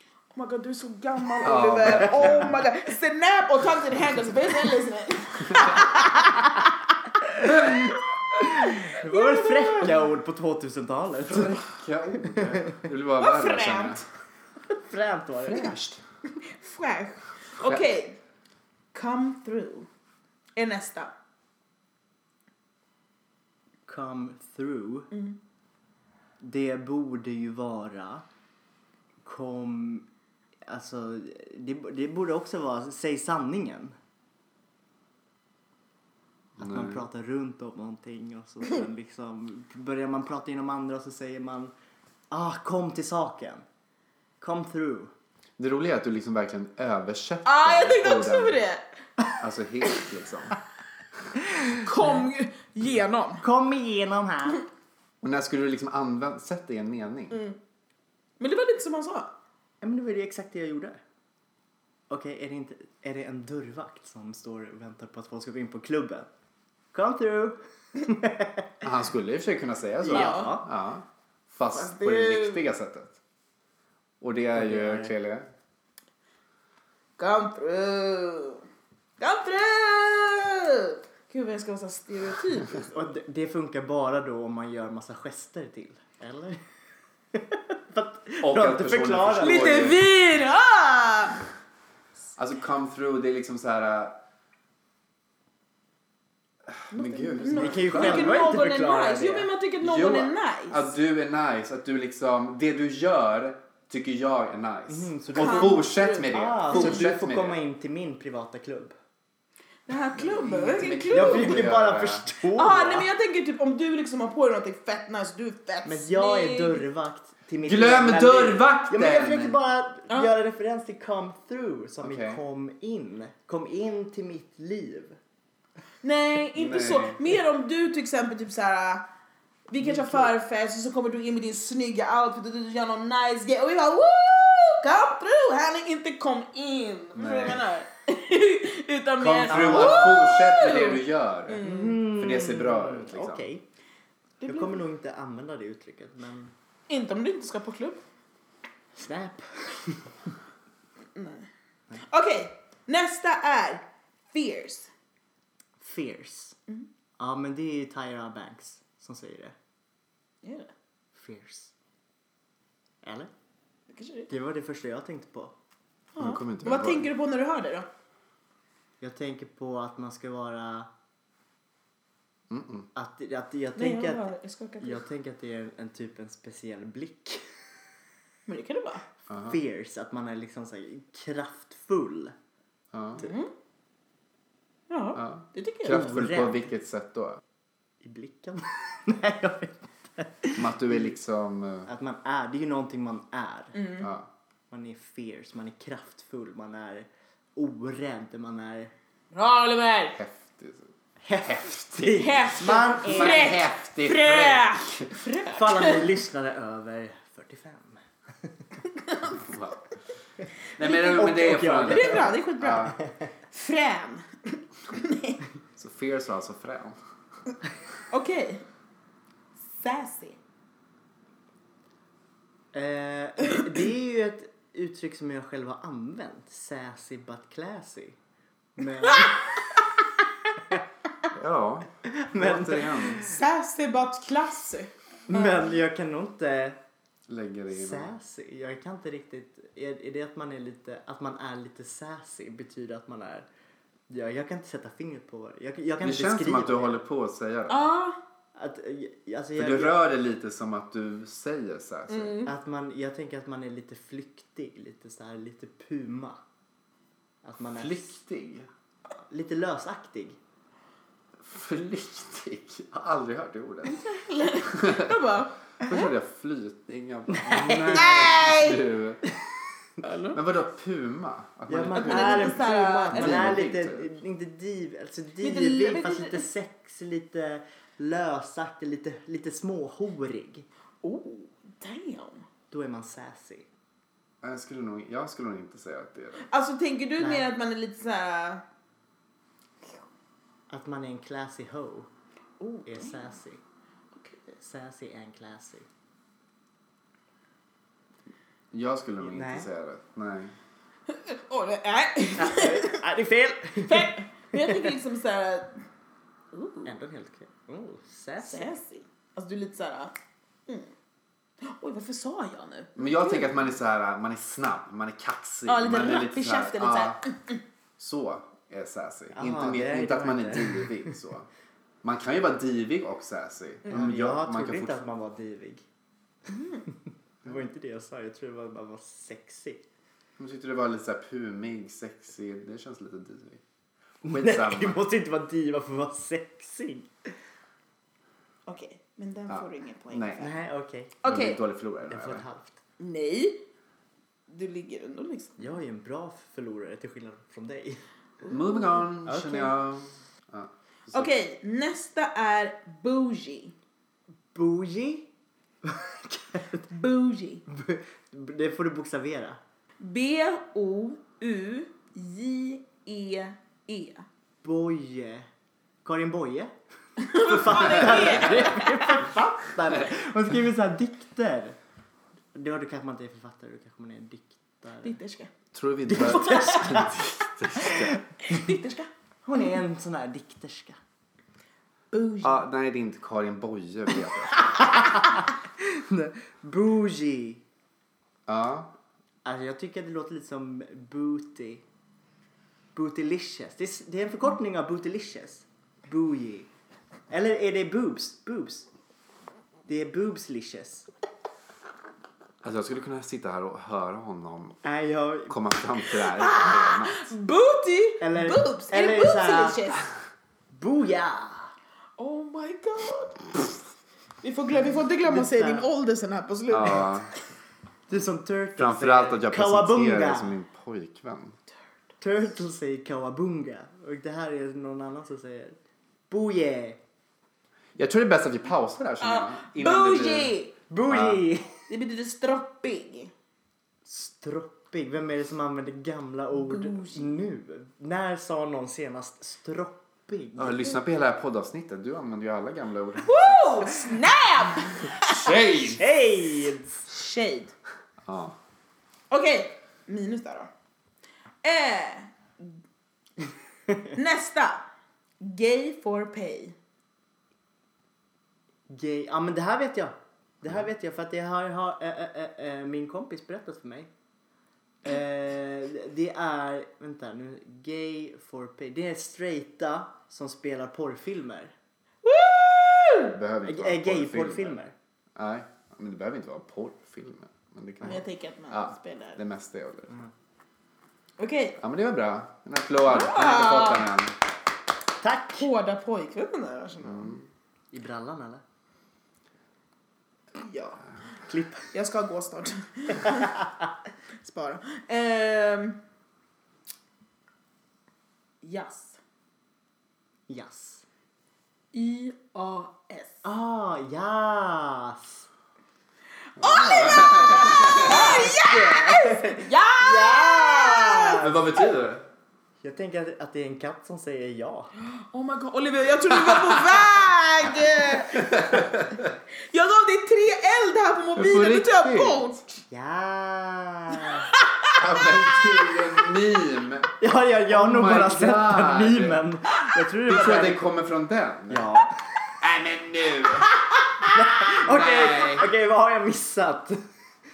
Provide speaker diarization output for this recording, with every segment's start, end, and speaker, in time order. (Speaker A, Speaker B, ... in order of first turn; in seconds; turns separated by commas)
Speaker A: 0.3-6.4, Speaker B: 1.4-2.6, Speaker B: 5.5-5.8, Speaker C: 5.8-6.6, Speaker C: 7.2-11.7, Speaker A: 9.0-10.0, Speaker B: 11.3-14.1, Speaker C: 12.2-12.8, Speaker A: 13.2-14.0, Speaker C: 14.7-15.8, Speaker B: 15.4-16.0, Speaker A: 16.4-18.2, Speaker B: 17.6-17.9, Speaker A: 18.9-19.9, Speaker A: 20.6-21.1, Speaker C: 23.9-25.1, Speaker A: 25.1-25.4, Speaker C: 26.4-28.2, Speaker C: 29.2-30.1, Speaker C: 30.7-34.0, Speaker C: 36.6-41.7, Speaker B: 36.6-37.0, Speaker C: 42.3-43.6, Speaker C: 44.4-45.1, Speaker B: 45.6-48.6, Speaker A: 47.5-48.8, Speaker B: 49.4-50.6, Speaker A: 51.7-53.4, Speaker C: 53.4-54.6, Speaker B: 55.2-57.4, Speaker A: 57.3-57.6, Speaker A: 58.4-59.3, Speaker C: 59.8-61.0, Speaker C: 62.1-66.3, Speaker C: 66.9-68.7, Speaker B: 68.8-73.2, Speaker C: 70.0-70.7, Speaker A: 70.1-70.5, Speaker A: 71.7-72.7, Speaker B: 74.2-75.5, Speaker C: 74.5-75.1, Speaker A: 77.2-78.6, Speaker A: 79.2-82.9, Speaker C: 82.8-86.6, Speaker C: 87.3-89.9, Speaker B: 88.4-90.0, Speaker A: 89.4-91.4, Speaker B: 92.4-94.2, Speaker B: 96.7-98.6, Speaker A: 96.9-100.9, Speaker C: 97.4-99.5, Speaker B: 99.8-107.6, Speaker C: 104.9-109.0, Speaker A: 105.4-107.1, Speaker A: 109.9-111.7, Speaker B: 110.2-112.2, Speaker C: 110.5-113.1, Speaker A: 112.5-116.8, Speaker C: 115.8-125.2, Speaker B: 117.6-119.6, Speaker B: 122.0-122.4, Speaker A: 126.0-129.1, Speaker B: 126.5-127.2, Speaker A: 129.7-142.1, Speaker C: 129.8-130.3, Speaker B: 137.2-137.6, Speaker B: 139.2-141.6, Speaker C: 139.5-140.4, Speaker C: 141.6-143.6, Speaker B: 142.2-143.5, Speaker A: 144.4-144.8, Speaker C: 144.4-146.5, Speaker A: 146.9-148.0, Speaker C: 148.9-150.3, Speaker A: 151.2-154.9, Speaker C: 155.8-156.6, Speaker C: 157.2-159.6, Speaker A: 160.4-160.7, Speaker C: 161.2-161.7, Speaker C: 163.0-163.3, Speaker A: 163.9-164.3, Speaker C: 164.3-165.5, Speaker A: 166.2-167.9, Speaker B: 166.2-167.1, Speaker C: 169.0-170.9, Speaker B: 172.5-172.9, Speaker C: 172.9-174.3, Speaker A: 173.8-175.0, Speaker C: 174.8-177.4, Speaker A: 178.5-179.0, Speaker B: 179.3-179.6, Speaker C: 179.4-182.3, Speaker B: 182.9-183.2, Speaker A: 183.2-183.5, Speaker A: 184.9-186.1, Speaker B: 185.2-187.4, Speaker C: 185.8-186.7, Speaker C: 188.0-191.1, Speaker B: 190.6-191.9, Speaker C: 191.9-193.8, Speaker A: 193.7-194.1, Speaker B: 194.0-194.3, Speaker C: 194.7-198.9, Speaker A: 199.3-200.2, Speaker B: 200.2-200.9, Speaker C: 201.2-203.5, Speaker B: 201.4-202.4, Speaker A: 202.1-206.1, Speaker B: 203.0-205.1, Speaker C: 205.2-208.5, Speaker A: 209.0-209.4, Speaker B: 209.4-209.8, Speaker B: 210.8-213.0, Speaker A: 210.8-213.0, Speaker C: 211.1-213.3, Speaker A: 213.5-215.4, Speaker B: 215.8-217.0, Speaker A: 218.1-218.6, Speaker A: 219.7-220.4, Speaker C: 222.7-228.2, Speaker C: 228.8-229.9, Speaker C: 230.6-230.8, Speaker B: 231.3-233.3, Speaker C: 232.1-233.4, Speaker A: 233.3-235.7, Speaker C: 235.3-236.8, Speaker B: 237.3-238.1, Speaker C: 237.7-243.5, Speaker C: 244.1-247.0, Speaker B: 246.0-247.9, Speaker A: 247.7-248.2, Speaker C: 248.6-250.0, Speaker B: 249.6-252.4, Speaker A: 252.1-252.5, Speaker C: 252.4-256.4, Speaker C: 257.4-258.2, Speaker B: 257.8-258.7, Speaker C: 259.3-260.4, Speaker B: 261.4-264.1, Speaker A: 263.8-266.1, Speaker B: 264.7-265.2, Speaker B: 265.8-269.2, Speaker C: 267.3-268.1, Speaker A: 267.9-268.8, Speaker A: 270.0-270.4, Speaker B: 270.3-274.1, Speaker C: 271.7-280.7, Speaker A: 271.9-273.6, Speaker A: 275.4-276.5, Speaker A: 281.0-282.5, Speaker C: 282.7-283.7, Speaker B: 284.4-286.5, Speaker A: 286.5-288.6, Speaker C: 287.2-287.5, Speaker C: 290.7-292.1, Speaker A: 292.6-293.2, Speaker C: 292.9-293.6, Speaker A: 294.1-294.6, Speaker C: 294.6-295.9, Speaker B: 298.7-300.6, Speaker C: 299.2-299.7, Speaker A: 301.1-303.0, Speaker C: 302.4-304.8, Speaker A: 303.9-305.8, Speaker A: 306.5-306.9, Speaker C: 306.8-308.7, Speaker A: 308.4-310.1, Speaker A: 310.7-310.9, Speaker A: 311.6-313.5, Speaker B: 313.0-317.2, Speaker A: 315.7-317.6, Speaker B: 318.0-321.5, Speaker C: 319.4-321.1, Speaker B: 322.0-325.0, Speaker C: 323.9-325.9, Speaker A: 326.5-326.8, Speaker C: 326.9-329.8, Speaker B: 330.4-333.6, Speaker C: 334.2-337.1, Speaker B: 334.3-335.0, Speaker A: 338.7-340.6, Speaker B: 339.5-340.4, Speaker C: 340.4-341.1, Speaker A: 341.2-341.6, Speaker B: 341.2-342.4, Speaker C: 342.1-342.8, Speaker A: 343.0-343.6, Speaker A: 344.5-345.8, Speaker C: 345.6-348.0, Speaker A: 348.4-349.1, Speaker B: 348.5-351.3, Speaker C: 349.2-349.7, Speaker A: 351.1-353.7, Speaker C: 354.5-355.3, Speaker C: 355.8-356.9, Speaker A: 356.9-357.6, Speaker C: 357.7-359.6, Speaker A: 360.0-364.3, Speaker C: 364.6-365.5, Speaker C: 366.0-371.8, Speaker A: 367.2-369.3, Speaker C: 372.5-375.2, Speaker A: 375.0-375.5, Speaker B: 375.7-378.2, Speaker C: 376.1-377.2, Speaker A: 376.2-377.1, Speaker C: 377.8-378.6, Speaker A: 378.4-379.1, Speaker C: 379.4-381.0, Speaker A: 382.1-382.6, Speaker B: 382.4-384.9, Speaker C: 384.8-387.6, Speaker B: 388.5-388.9, Speaker C: 389.4-391.8, Speaker C: 392.9-396.7, Speaker C: 397.3-398.9, Speaker C: 399.9-401.1, Speaker B: 402.6-404.8, Speaker C: 404.8-405.6, Speaker B: 405.5-407.3, Speaker A: 406.1-410.1, Speaker C: 408.2-409.8, Speaker C: 410.7-411.7, Speaker A: 412.2-413.7, Speaker A: 414.4-417.4, Speaker C: 414.9-415.9, Speaker B: 416.7-417.3, Speaker C: 418.1-420.6, Speaker B: 418.8-421.6, Speaker C: 422.2-425.8, Speaker C: 426.3-427.0, Speaker B: 428.0-430.5, Speaker A: 429.2-430.7, Speaker C: 430.9-431.8, Speaker B: 431.1-431.4, Speaker A: 431.9-433.3, Speaker C: 434.1-440.9, Speaker A: 436.5-437.3, Speaker B: 440.6-443.9, Speaker A: 443.2-445.6, Speaker B: 445.2-446.1, Speaker C: 445.8-447.1, Speaker A: 447.1-447.7, Speaker B: 448.2-448.6, Speaker A: 449.3-450.7, Speaker A: 451.6-452.7, Speaker A: 454.1-454.8, Speaker A: 455.4-456.8, Speaker C: 458.9-464.1, Speaker C: 465.0-471.7, Speaker A: 472.2-473.4, Speaker B: 473.3-474.8, Speaker C: 473.6-474.9, Speaker B: 475.4-480.1, Speaker A: 478.0-479.4, Speaker A: 481.4-481.8, Speaker B: 481.8-484.4, Speaker A: 483.1-484.1, Speaker C: 485.2-485.7, Speaker A: 485.6-487.4, Speaker B: 487.0-487.5, Speaker C: 487.9-488.6, Speaker A: 490.6-491.0, Speaker C: 491.5-491.9, Speaker A: 491.9-493.6, Speaker C: 493.2-493.7, Speaker A: 494.4-496.0, Speaker A: 498.6-499.2, Speaker C: 500.5-501.1, Speaker A: 501.9-503.4, Speaker C: 503.4-505.5, Speaker A: 506.6-511.4, Speaker B: 506.6-508.5, Speaker C: 507.4-511.8, Speaker B: 511.4-512.2, Speaker C: 512.8-514.9, Speaker A: 515.0-518.7, Speaker B: 516.3-517.1, Speaker B: 518.0-519.4, Speaker A: 519.7-522.8, Speaker B: 521.4-522.4, Speaker C: 522.9-524.5, Speaker A: 524.2-525.3, Speaker B: 525.0-527.1, Speaker C: 527.2-530.8, Speaker B: 527.7-529.4, Speaker B: 530.3-531.9, Speaker C: 531.7-532.1, Speaker B: 532.6-533.7, Speaker C: 534.2-537.0, Speaker B: 534.6-535.7